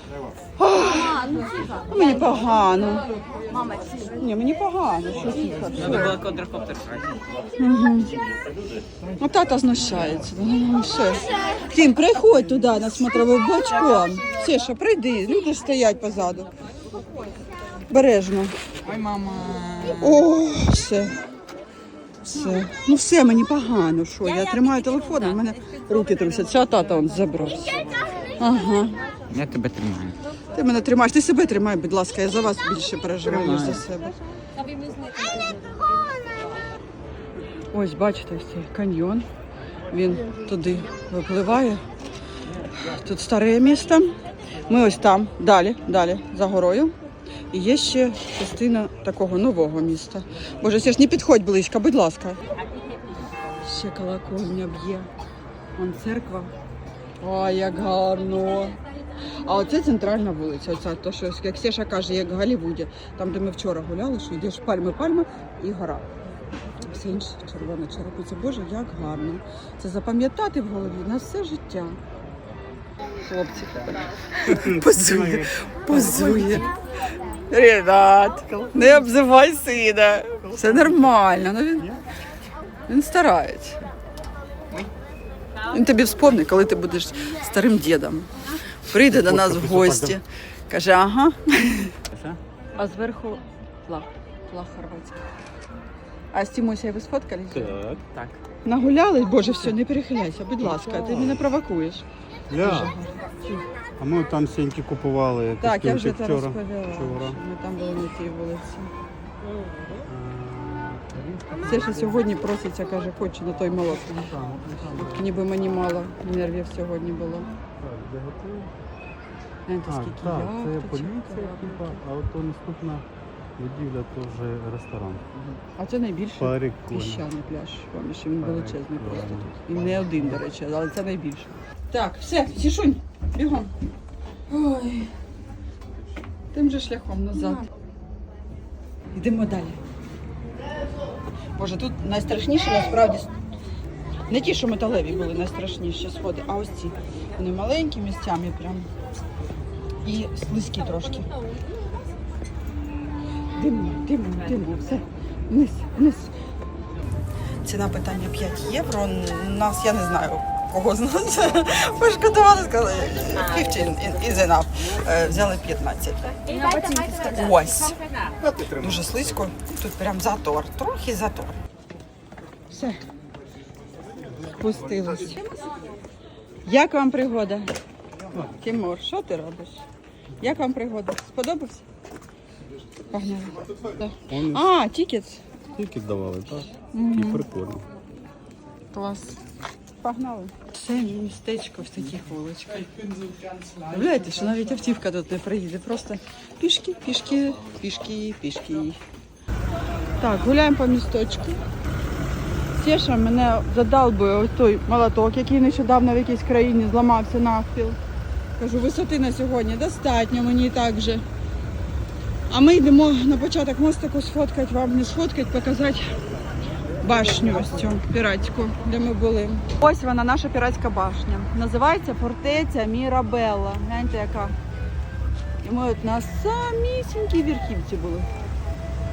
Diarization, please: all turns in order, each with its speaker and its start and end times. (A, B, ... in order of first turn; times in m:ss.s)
0:00.6-0:06.2 A
0:05.8-0:07.2 B
0:07.6-0:08.1 A
0:09.2-0:16.5 A
0:17.9-0:18.6 A
0:18.8-0:20.2 B
0:19.8-0:21.2 A
0:22.2-0:27.8 A
0:28.4-0:29.0 A
0:29.3-0:30.2 B
0:30.5-0:34.2 A
0:33.3-0:33.8 B
0:37.7-0:39.3 A
0:39.9-0:41.8 A
0:42.7-0:44.1 A
0:44.7-0:46.9 A
0:47.5-0:52.4 A
0:53.6-0:55.1 A
0:55.8-0:56.5 A
0:57.2-0:58.8 A
0:59.4-1:06.0 A
1:06.8-1:12.0 A
1:13.2-1:16.7 A
1:14.5-1:16.6 C
1:17.5-1:21.9 A
1:20.4-1:21.1 C
1:22.9-1:23.8 A
1:25.7-1:32.0 A
1:29.1-1:30.2 C
1:32.1-1:32.4 C
1:32.7-1:35.2 A
1:36.3-1:37.8 A
1:37.5-1:38.0 C
1:38.1-1:38.4 B
1:38.6-1:42.0 A
1:40.6-1:41.4 C
1:42.5-1:42.9 C
1:42.5-1:43.6 A
1:44.0-1:47.4 C
1:45.6-1:48.9 A
1:50.0-1:52.3 C
1:51.7-1:57.5 A
1:54.1-1:55.4 C
1:57.8-1:58.7 C
1:59.7-2:02.0 A
1:59.9-2:03.0 C
2:03.6-2:05.3 C
2:05.8-2:13.7 A
2:06.4-2:07.3 C
2:08.4-2:10.4 C
2:14.5-2:15.1 A
2:16.5-2:17.7 A
2:19.1-2:19.8 A
2:21.6-2:23.3 A
2:24.3-2:28.9 A
2:30.0-2:31.3 A
2:33.5-2:36.3 A
2:37.6-2:48.0 A
2:48.7-2:51.6 A
2:52.7-2:53.0 A
2:54.5-2:55.6 A
2:56.6-2:57.7 A
2:58.3-2:58.6 C
2:58.6-2:59.8 A
3:00.4-3:01.8 A
3:03.1-3:05.4 A
3:04.3-3:04.7 C
3:05.7-3:07.9 C
3:06.9-3:07.4 A
3:08.9-3:09.4 A
3:10.0-3:12.9 A
3:13.8-3:19.0 A
3:20.2-3:21.6 A
3:22.7-3:28.0 A
3:28.6-3:31.2 A
3:32.5-3:36.1 A
3:37.0-3:44.6 A
3:45.6-3:48.3 A